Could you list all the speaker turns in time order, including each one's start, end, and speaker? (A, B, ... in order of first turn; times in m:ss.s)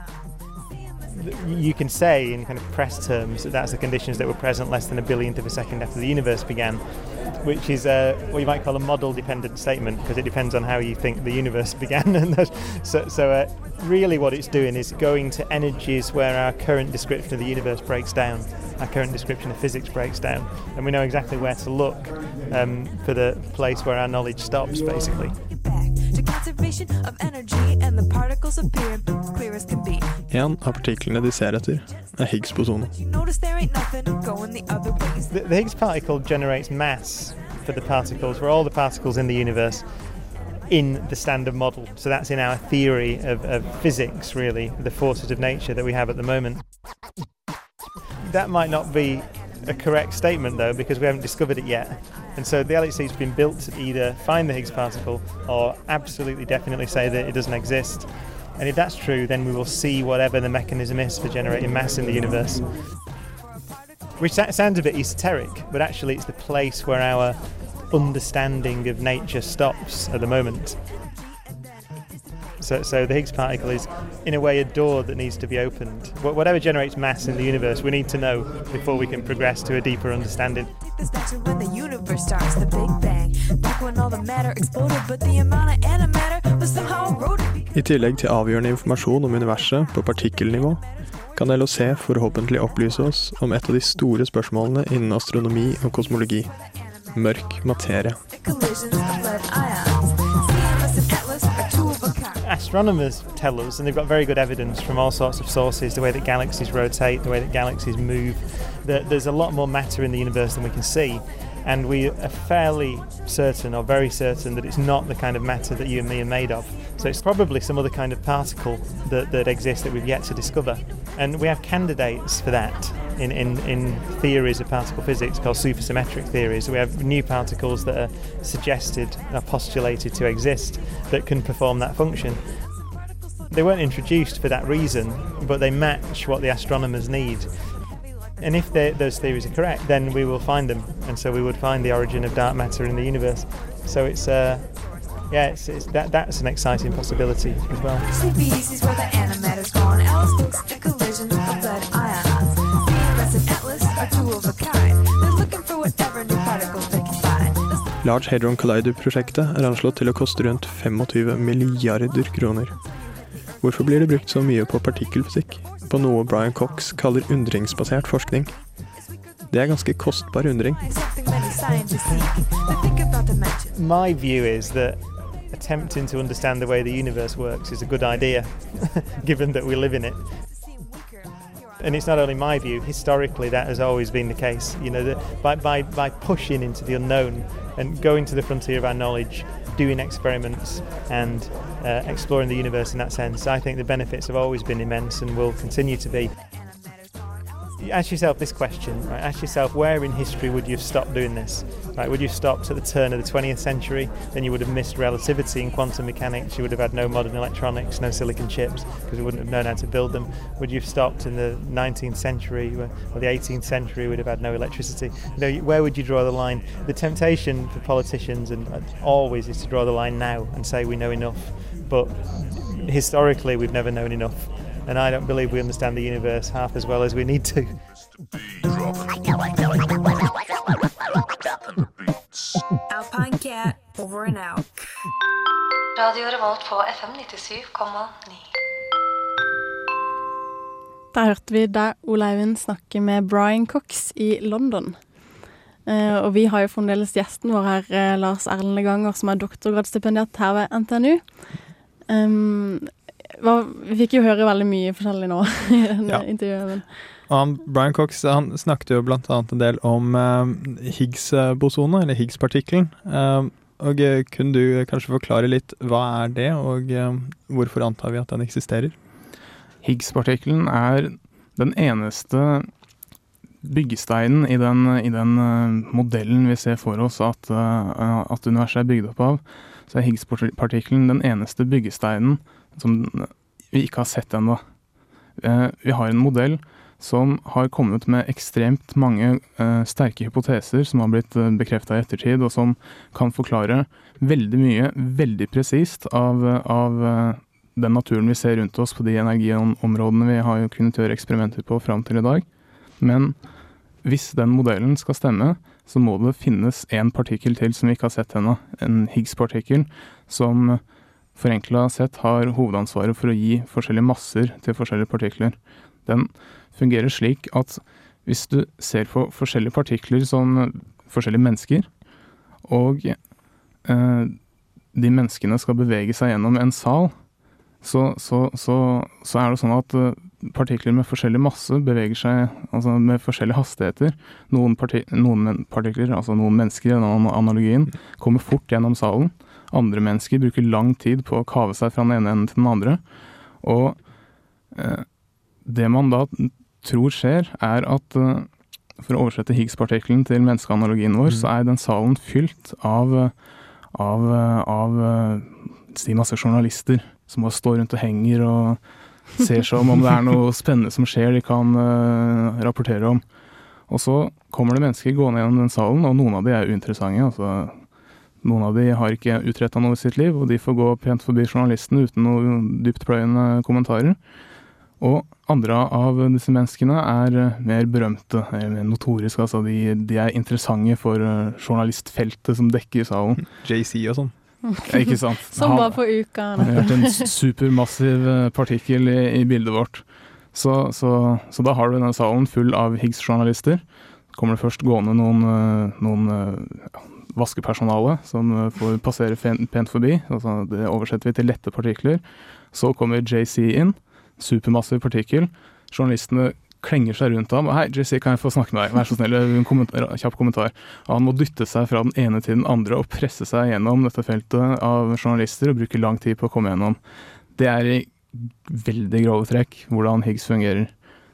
0:01.1-0:25.4 A
0:25.4-0:30.2 B
0:30.3-0:32.9 C
0:32.9-0:35.4 B
0:35.3-0:46.6 A
0:48.2-1:02.8 A
1:04.2-1:10.9 A
1:12.6-1:20.8 A
1:20.8-1:27.8 B
1:27.7-1:30.8 C
1:31.4-1:36.5 C
1:36.6-1:37.5 B
1:37.1-1:38.2 C
1:38.2-1:42.5 B
1:42.4-2:12.6 A
2:13.5-2:17.7 A
2:18.4-2:28.0 A
2:28.1-2:37.9 B
2:38.0-2:42.8 C
2:43.6-2:48.5 C
2:49.5-2:50.8 C
2:50.8-2:53.8 B
2:53.8-3:00.3 A
3:01.8-3:16.4 A
3:17.8-3:47.8 A
3:52.9-3:54.8 B
3:56.0-3:58.4 D
4:01.1-4:05.0 E
4:05.9-4:11.5 E
4:12.1-4:16.9 E
4:17.3-4:29.0 C
4:29.8-4:32.7 F
4:33.6-4:44.6 F
4:45.4-5:02.4 F
5:03.0-5:03.4 F
5:04.0-5:10.8 F
5:11.4-5:21.9 F
5:22.6-5:23.2 F
5:23.8-5:24.4 F
5:24.9-5:27.1 F
5:27.8-5:43.0 F
5:43.6-5:44.0 F
5:44.7-5:45.0 F
5:45.6-5:48.5 F
5:49.0-5:53.3 F
5:53.9-5:58.8 F
5:59.4-6:03.2 F
6:03.9-6:07.8 F
6:08.4-6:14.2 F
6:15.0-6:23.5 F
6:23.5-6:24.3 C
6:24.7-6:27.3 E
6:24.9-6:26.0 F
6:26.6-6:33.8 F
6:34.3-6:57.0 F
6:57.6-7:00.9 F